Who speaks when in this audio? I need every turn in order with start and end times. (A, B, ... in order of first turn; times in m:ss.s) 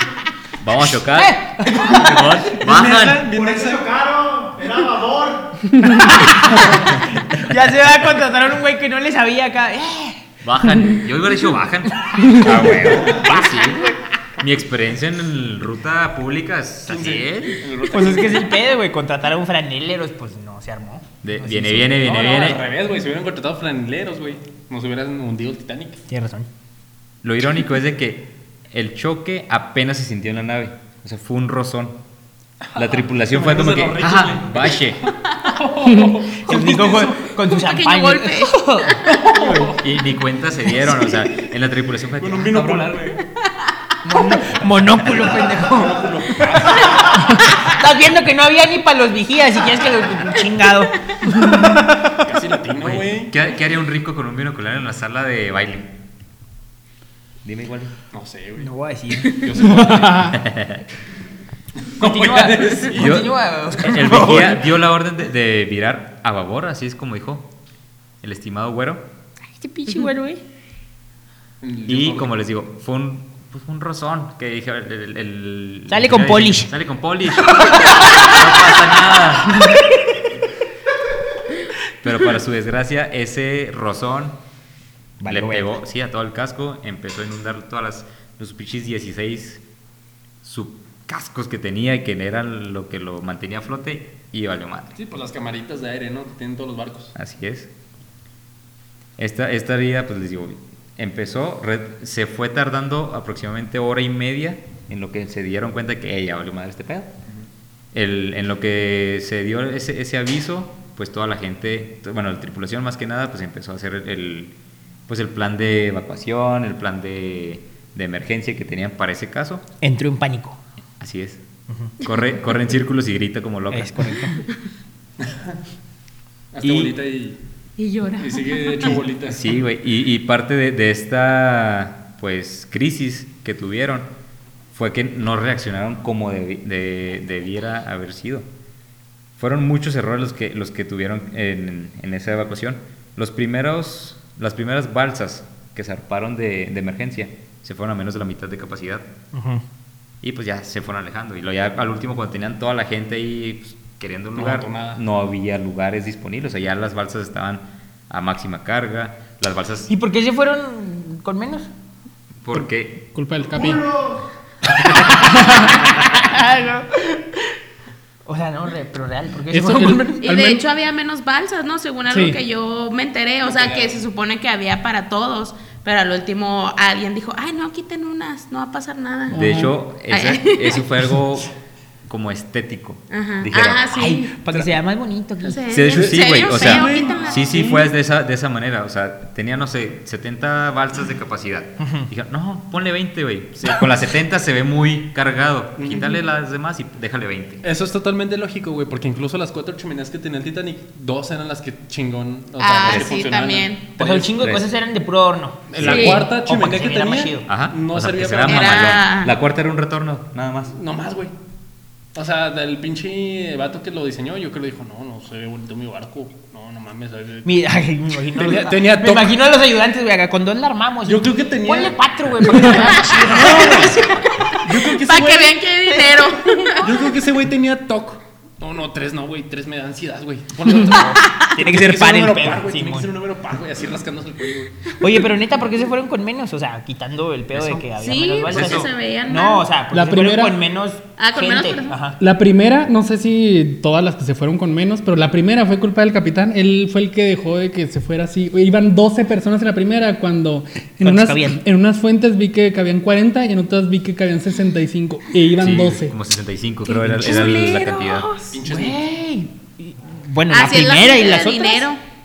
0:00.6-0:03.3 A
0:01.2-0:02.6 B
0:02.5-0:03.8 C
0:03.3-0:05.6 D
0:06.1-0:10.2 B
0:10.4-0:17.6 A
0:12.2-0:14.0 B
0:16.9-0:18.6 C
0:17.9-0:22.0 B
0:21.2-0:22.6 A
0:21.8-0:26.0 C
0:26.1-0:26.5 B
0:27.2-0:32.0 A
0:32.7-0:37.4 C
0:32.8-0:35.0 A
0:36.3-0:39.5 B
0:37.5-0:38.6 E
0:39.1-0:39.8 C
0:39.4-0:43.2 A
0:42.2-0:43.3 C
0:44.0-0:51.0 B
0:45.0-0:47.2 C
0:52.1-0:53.4 C
0:52.8-0:56.0 A
0:57.4-0:57.9 A
0:58.1-0:58.7 C
0:58.6-0:59.5 B
0:59.2-1:00.4 C
0:59.8-1:00.4 F
1:00.3-1:00.8 A
1:01.9-1:03.2 C
1:02.0-1:04.7 B
1:02.9-1:07.5 A
1:08.2-1:09.1 A
1:09.6-1:10.4 B
1:11.6-1:12.4 C
1:11.9-1:19.7 A
1:15.9-1:16.7 B
1:22.0-1:24.4 A
1:25.2-1:25.7 B
1:25.2-1:29.6 A
1:30.4-1:35.0 A
1:35.0-1:37.1 C
1:37.2-1:37.7 A
1:39.2-1:47.1 A
1:47.9-1:54.5 A
1:55.1-1:59.6 A
1:59.8-2:00.6 B
2:01.0-2:01.4 A
2:01.7-2:01.9 B
2:02.0-2:04.2 A
2:03.7-2:04.4 B
2:05.2-2:05.6 C
2:06.5-2:07.4 C
2:06.6-2:06.9 A
2:07.8-2:09.0 E
2:08.2-2:09.5 C
2:09.3-2:14.1 A
2:14.7-2:18.5 A
2:19.4-2:29.1 A
2:29.3-2:29.6 B
2:30.2-2:39.9 A
2:34.4-2:35.0 C
2:39.9-2:41.7 B
2:42.4-2:43.0 A
2:42.6-2:43.8 F
2:43.6-2:44.2 D
2:44.9-2:47.4 B
2:45.2-2:45.7 F
2:48.3-2:50.3 B
2:49.5-2:50.6 F
2:50.2-2:59.5 E
2:52.1-2:52.4 F
2:53.4-2:54.0 C
2:59.3-2:59.8 F
2:59.3-3:01.5 A
3:00.1-3:00.9 E
3:02.1-3:03.9 A
3:03.1-3:04.3 E
3:03.9-3:06.0 B
3:05.5-3:07.6 E
3:05.7-3:17.6 A
3:05.9-3:07.9 C
3:11.8-3:12.1 B
3:15.8-3:16.2 C
3:17.6-3:24.4 C
3:22.6-3:23.8 E
3:22.8-3:23.2 A
3:24.0-3:27.5 B
3:24.4-3:24.7 A
3:25.7-3:29.0 C
3:25.8-3:26.2 A
3:25.8-3:26.2 E
3:27.5-3:30.8 A
3:28.4-3:29.3 E
3:30.8-3:31.3 C
3:32.2-3:37.5 C
3:37.4-3:44.6 B
3:38.3-3:39.4 C
3:41.1-3:45.6 C
3:45.0-3:46.9 E
3:45.9-3:46.4 B
3:46.8-3:54.8 C
3:50.8-3:53.1 B
3:55.0-4:02.2 B
3:57.5-3:57.9 A
3:58.0-3:59.7 E
3:58.5-3:58.9 A
3:59.9-4:00.6 F
4:01.2-4:02.0 E
4:02.2-4:16.1 F
4:11.0-4:11.6 B
4:15.6-4:18.3 A
4:16.9-4:18.6 E
4:17.0-4:18.1 B
4:18.5-4:19.0 C
4:18.6-4:21.9 B
4:20.5-4:22.0 E